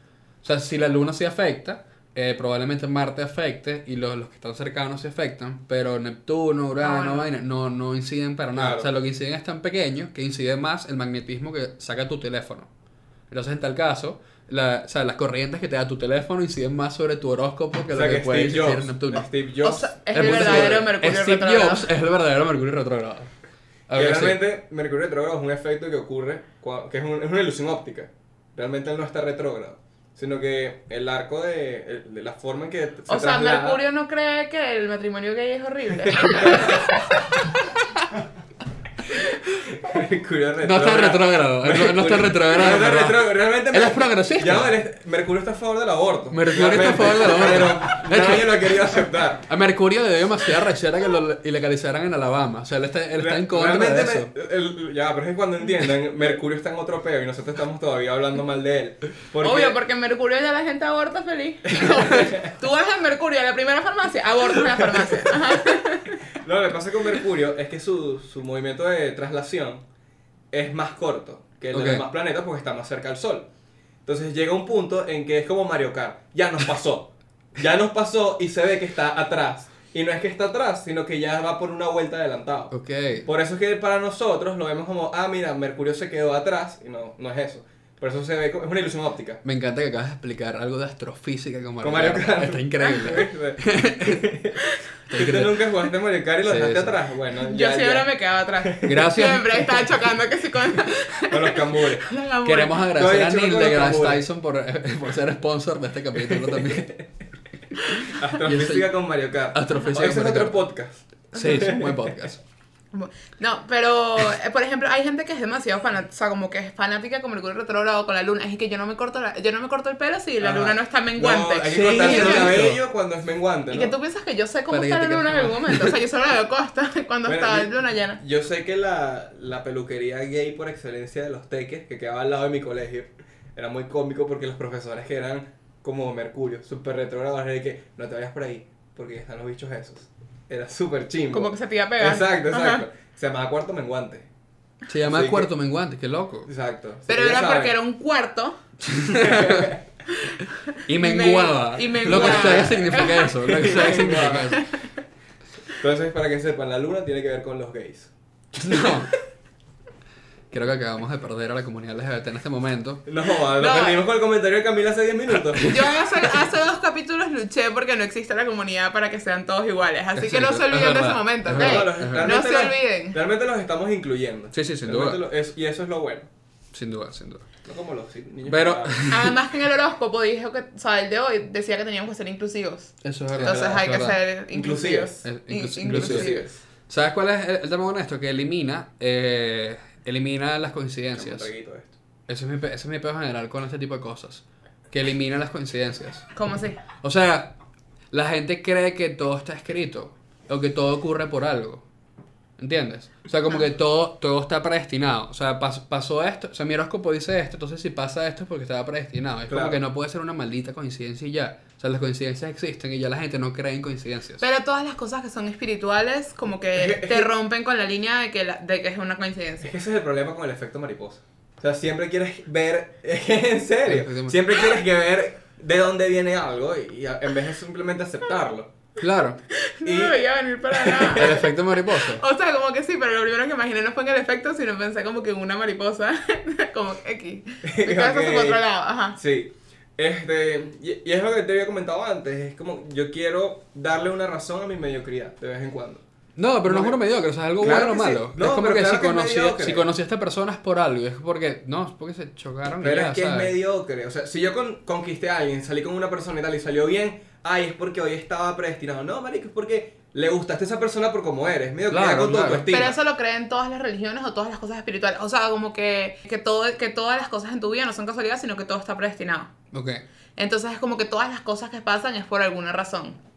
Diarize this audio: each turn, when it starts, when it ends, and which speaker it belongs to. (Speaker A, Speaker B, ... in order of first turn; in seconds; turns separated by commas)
Speaker A: 0.4-12.7, Speaker B: 6.8-7.3, Speaker C: 8.6-8.9, Speaker A: 13.3-19.3, Speaker C: 17.9-20.9, Speaker B: 19.6-21.9, Speaker A: 20.1-23.3, Speaker A: 23.9-24.4, Speaker C: 23.9-33.8, Speaker B: 33.1-36.8, Speaker C: 36.2-36.8, Speaker C: 39.7-49.5, Speaker A: 40.6-44.8, Speaker A: 46.3-48.9, Speaker A: 49.5-54.3, Speaker C: 53.2-59.8, Speaker B: 59.4-66.2, Speaker C: 61.8-62.4, Speaker C: 66.3-69.8, Speaker C: 70.5-73.5, Speaker A: 71.7-72.0, Speaker C: 74.1-82.7, Speaker A: 82.7-83.3, Speaker C: 83.2-89.4, Speaker A: 89.4-94.2, Speaker C: 91.8-94.6, Speaker A: 95.1-95.7, Speaker C: 95.1-98.1, Speaker A: 96.4-97.0, Speaker B: 97.4-102.8, Speaker C: 98.6-98.9, Speaker A: 98.8-99.7, Speaker C: 101.3-102.1, Speaker A: 102.4-107.0, Speaker C: 102.9-104.2, Speaker C: 106.2-107.0, Speaker A: 108.0-108.9, Speaker C: 108.1-112.3, Speaker A: 109.5-110.7, Speaker A: 111.3-112.4, Speaker B: 112.9-122.7, Speaker C: 120.4-123.9, Speaker A: 121.7-122.8, Speaker B: 123.7-128.2, Speaker A: 124.7-126.0, Speaker C: 127.2-144.3, Speaker B: 141.3-142.8, Speaker A: 144.9-146.5, Speaker C: 145.1-145.5, Speaker C: 146.5-147.8, Speaker B: 147.1-148.6, Speaker A: 148.9-149.7, Speaker C: 149.2-149.8, Speaker A: 150.9-154.7, Speaker B: 150.9-153.3, Speaker C: 152.1-154.6, Speaker C: 155.8-158.1, Speaker A: 158.6-159.1, Speaker A: 160.5-163.0, Speaker C: 163.1-165.8, Speaker B: 163.6-164.0, Speaker B: 165.7-173.2, Speaker A: 170.2-172.3, Speaker C: 171.5-176.3, Speaker A: 174.5-175.2, Speaker A: 176.7-177.4, Speaker C: 177.7-179.1, Speaker A: 178.5-179.3, Speaker B: 179.1-186.4, Speaker A: 183.0-184.2, Speaker C: 183.4-183.9, Speaker C: 184.5-185.2, Speaker A: 185.2-191.5, Speaker C: 185.9-186.6, Speaker C: 191.2-191.9, Speaker A: 192.3-196.3, Speaker B: 196.3-196.8, Speaker A: 197.0-197.6, Speaker A: 198.1-201.8, Speaker A: 202.6-214.4, Speaker C: 209.5-209.8, Speaker B: 214.4-219.7, Speaker C: 216.8-217.3, Speaker C: 219.6-228.7, Speaker A: 223.9-224.4, Speaker A: 229.0-229.4, Speaker B: 229.6-239.2, Speaker C: 229.8-231.4, Speaker A: 231.2-232.2, Speaker C: 237.6-238.6, Speaker C: 239.2-246.0, Speaker A: 246.4-253.5, Speaker C: 246.6-247.0, Speaker C: 247.6-249.9, Speaker C: 252.8-263.0, Speaker A: 261.9-262.7, Speaker B: 262.7-269.5, Speaker A: 269.7-270.0, Speaker B: 270.4-273.2